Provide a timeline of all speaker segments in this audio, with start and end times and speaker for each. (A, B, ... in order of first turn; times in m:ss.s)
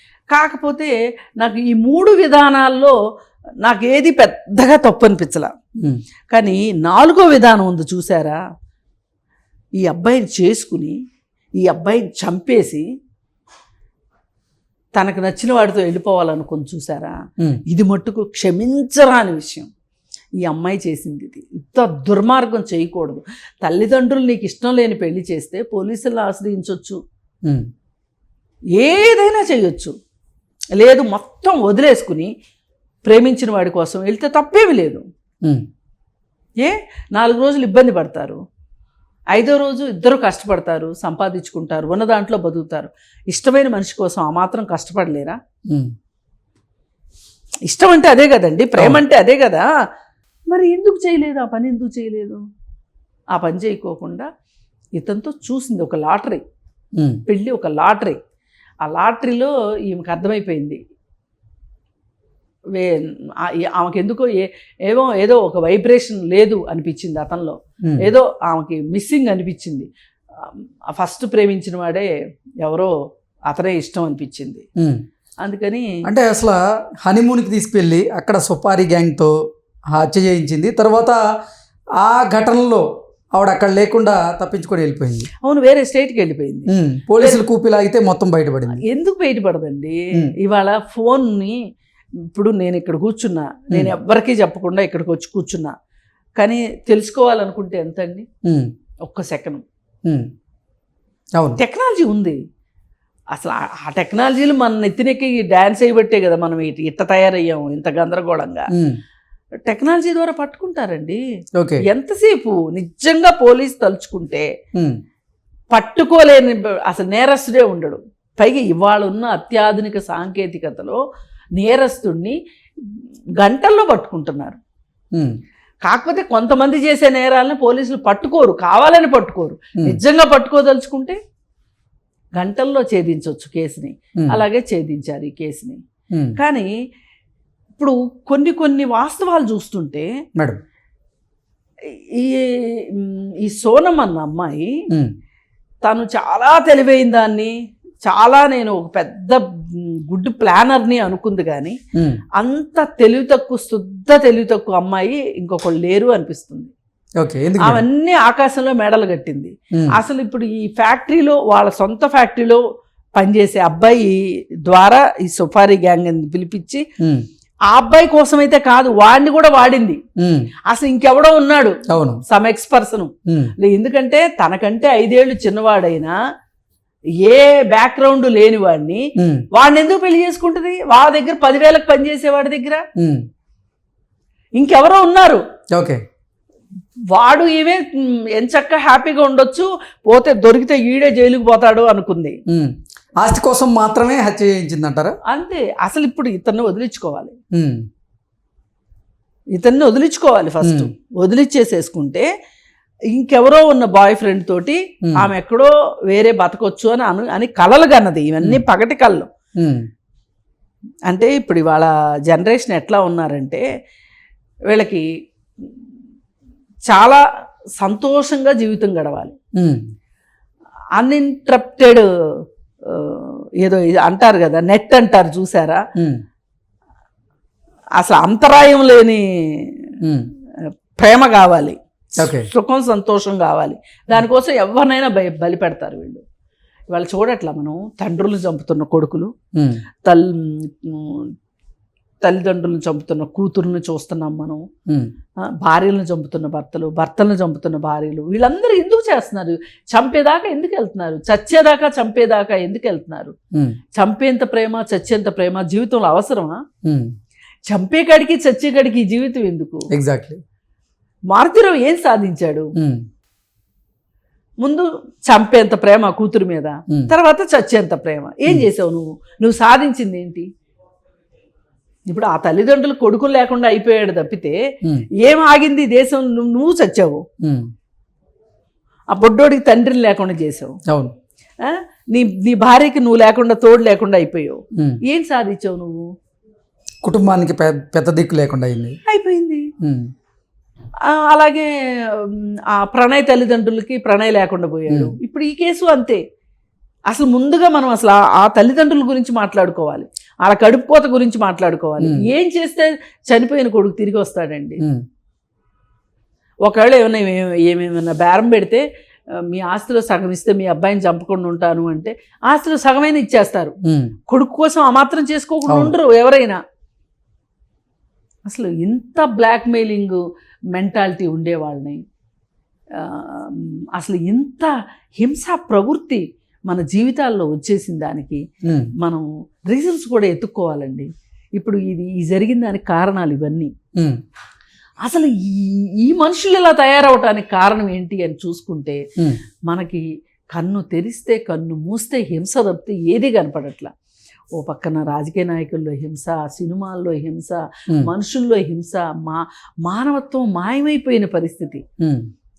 0:00.3-0:02.9 A
0:03.6-0:05.5 A
0:06.3-0:08.4 A
0:09.8-0:10.9 A
0:11.6-0:12.8 A
0:15.0-0:17.2 A
0:17.7-0:19.7 A
0:20.4-0:27.0 A
0:28.8-0:29.9 A
0:30.8-0:32.3 A
0:33.0-0:35.0 A
0:36.6-0:38.4 A
0:39.3-0:45.4 A
0:47.6-0:49.6 A
0:48.8-0:49.0 B
0:50.5-0:52.4 A
0:53.3-0:54.3 A
0:55.0-0:56.4 A
0:57.3-0:58.2 A
0:58.8-1:00.8 A
1:02.7-1:09.9 A
1:10.4-1:12.1 A
1:12.6-1:12.9 A
1:13.5-1:14.6 A
1:14.8-1:15.0 B
1:15.4-1:15.9 A
1:16.0-1:19.3 B
1:19.9-1:21.2 B
1:22.0-1:25.3 B
1:25.4-1:27.4 A
1:26.7-1:28.8 B
1:28.7-1:31.6 A
1:32.3-1:35.7 A
1:36.4-1:38.2 A
1:38.4-1:38.7 B
1:39.1-1:39.6 A
1:41.6-1:42.4 A
1:43.3-1:48.7 A
1:49.6-1:51.2 A
1:51.6-1:51.8 B
1:51.8-1:54.5 A
1:55.7-2:01.0 A
2:01.6-2:04.6 A
2:05.8-2:11.2 A
2:12.4-2:15.8 A
2:16.1-2:16.4 B
2:16.4-2:16.7 A
2:17.8-2:20.1 A
2:21.8-2:24.7 A
2:25.8-2:27.5 A
2:28.0-2:31.8 A
2:32.4-2:36.7 A
2:37.2-2:37.8 B
2:37.6-2:42.6 A
2:43.2-2:46.8 A
2:47.0-2:47.2 B
2:47.7-2:50.0 A
2:50.2-2:50.5 B
2:50.7-2:56.2 A
2:51.9-2:52.2 B
2:53.3-2:53.5 B
2:57.2-3:02.8 A
2:59.2-2:59.4 B
3:03.0-3:03.2 B
3:04.6-3:05.4 A
3:05.7-3:06.0 B
3:07.1-3:12.4 A
3:12.5-3:15.1 B
3:15.3-3:17.3 A
3:17.5-3:17.8 B
3:19.5-3:22.3 A
3:20.6-3:20.9 B
3:23.1-3:29.3 A
3:29.6-3:29.8 B
3:31.1-3:33.6 A
3:34.7-3:35.0 A
3:36.9-3:37.2 A
3:37.8-3:39.3 A
3:39.6-3:39.8 B
3:41.0-3:45.8 A
3:46.0-3:46.2 B
3:48.0-3:49.9 A
3:50.0-3:50.3 B
3:51.0-3:56.2 A
3:52.2-3:52.5 B
3:56.9-3:59.3 A
3:59.5-3:59.8 B
4:00.0-4:01.3 A
4:02.2-4:04.6 A
4:05.6-4:13.3 A
4:13.9-4:16.6 A
4:16.8-4:17.1 B
4:17.7-4:19.9 A
4:19.9-4:20.4 B
4:21.3-4:22.7 A
4:22.8-4:23.0 B
4:24.6-4:30.5 A
4:32.1-4:34.6 A
4:35.2-4:37.2 A
4:37.4-4:37.7 B
4:39.1-4:40.8 A
4:40.9-4:41.1 B
4:41.6-4:46.0 A
4:47.0-4:49.0 B
4:49.0-4:49.7 A
4:49.8-4:50.1 B
4:51.0-4:56.2 A
4:54.9-4:55.1 B
4:57.1-5:04.8 A
5:02.0-5:02.2 B
5:06.6-5:08.8 A
5:09.5-5:13.7 A
5:13.8-5:14.1 B
5:14.3-5:16.6 A
5:15.7-5:16.0 B
5:18.5-5:20.2 A
5:20.7-5:22.0 A
5:23.0-5:28.4 A
5:28.6-5:28.9 B
5:29.0-5:33.7 A
5:35.0-5:39.0 A
5:39.7-5:43.9 A
5:44.6-5:51.8 A
5:52.0-5:52.3 B